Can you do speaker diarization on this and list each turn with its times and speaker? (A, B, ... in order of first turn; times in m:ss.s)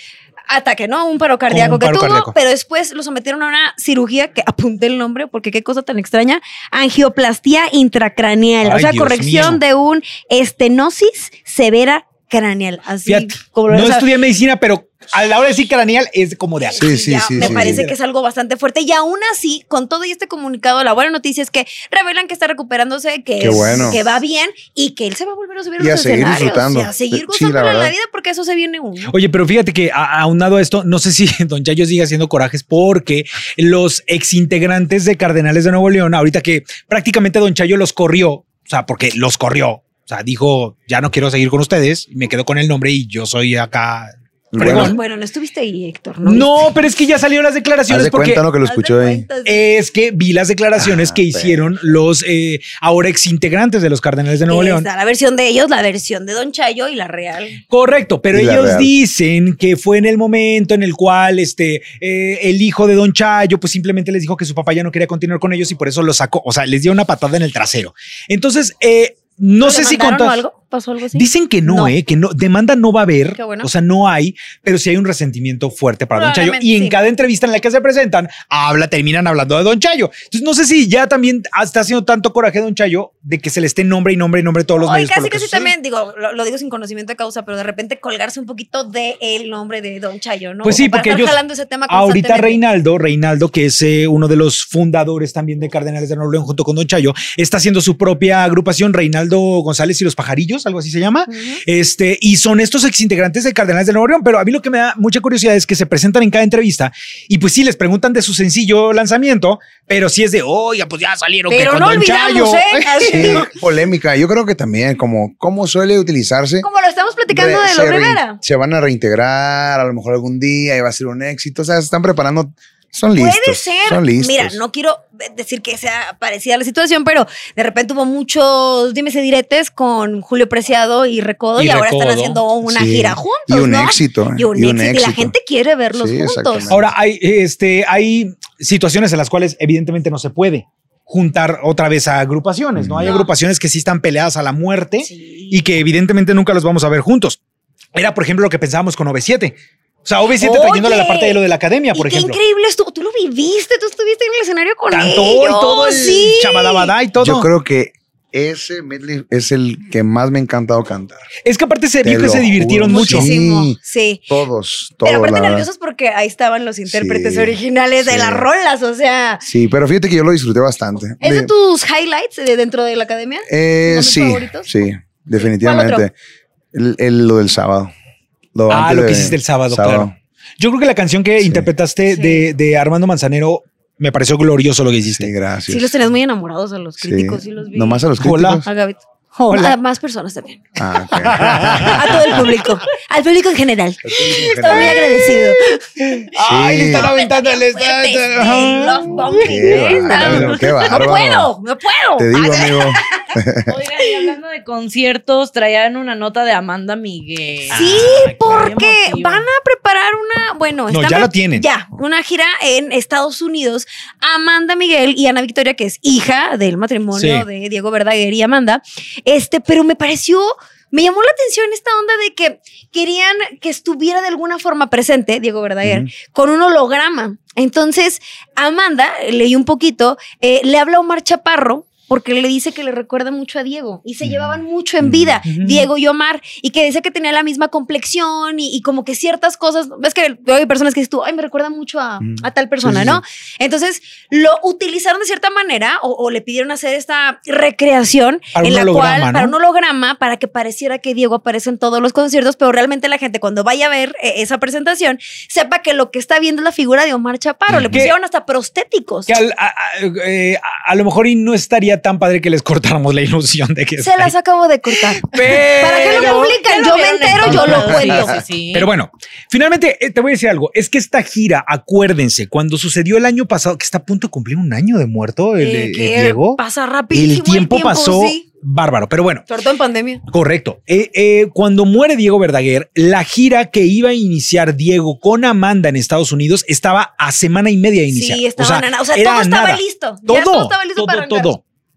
0:00.5-0:14.1 A
0:01.5-0:02.3 B
0:08.6-0:09.6 B
0:13.1-0:17.9 B
0:16.6-0:29.1 A
0:16.8-0:17.9 C
0:23.4-0:24.0 C
0:23.5-0:24.0 B
0:25.8-0:27.9 C
0:29.1-0:45.0 B
0:44.5-0:45.0 C
0:44.6-0:46.7 A
0:46.2-0:48.4 B
0:47.9-0:49.2 C
0:48.6-0:49.6 A
0:49.4-0:54.9 B
0:50.8-0:51.6 C
0:54.5-0:57.6 A
0:57.7-1:10.4 B
0:58.3-0:58.9 C
1:09.6-1:11.9 A
1:11.1-1:25.7 B
1:13.4-1:13.7 A
1:16.1-1:17.0 A
1:24.8-1:32.6 A
1:30.6-1:53.5 B
1:41.3-1:41.6 A
1:51.5-1:53.5 A
1:53.1-1:56.7 C
1:56.6-1:58.4 A
1:57.3-2:04.6 C
2:03.2-2:16.7 A
2:11.6-2:12.4 B
2:12.6-2:15.3 C
2:15.9-2:16.9 C
2:16.7-2:27.4 B
2:22.8-2:23.2 C
2:23.0-2:23.3 A
2:25.0-2:25.6 A
2:28.0-2:32.4 B
2:30.4-2:31.4 A
2:31.9-2:36.9 A
2:34.9-2:37.5 B
2:37.2-2:41.3 C
2:41.4-2:43.3 B
2:42.0-2:43.8 C
2:42.9-2:44.2 A
2:44.3-2:45.7 C
2:45.0-2:49.4 A
2:46.9-2:48.5 C
2:49.4-2:51.5 C
2:51.2-2:54.7 A
2:53.5-2:56.1 C
2:55.4-2:56.0 A
2:56.7-2:57.9 C
2:58.6-3:00.1 C
2:58.7-3:05.3 B
3:01.4-3:01.7 C
3:02.1-3:02.5 A
3:05.1-3:05.9 C
3:05.7-3:08.0 A
3:07.0-3:08.7 C
3:08.2-3:08.6 B
3:08.6-3:10.6 A
3:09.3-3:09.8 B
3:10.8-3:12.4 C
3:11.1-3:12.5 B
3:11.9-3:15.8 A
3:14.0-3:15.1 C
3:14.6-3:20.6 B
3:16.4-3:17.1 C
3:16.8-3:23.3 A
3:19.3-3:21.5 C
3:20.2-3:20.8 D
3:22.2-3:23.8 C
3:23.7-3:29.4 D
3:27.7-3:28.7 B
3:27.7-4:19.4 A
3:30.9-3:31.6 B
3:37.1-3:37.5 B
3:45.8-3:46.1 C
3:54.2-3:55.4 C
3:55.5-3:55.9 B
4:02.2-4:03.2 C
4:08.6-4:09.6 B
4:17.7-4:18.0 C
4:19.3-4:24.3 B
4:24.0-4:28.4 A
4:25.0-4:26.6 B
4:25.9-4:28.9 D
4:27.4-4:28.3 C
4:27.4-4:27.9 B
4:28.7-4:36.6 B
4:35.6-4:38.4 A
4:37.1-4:39.4 B
4:39.5-4:40.2 A
4:40.3-4:51.6 B
4:48.1-4:51.5 A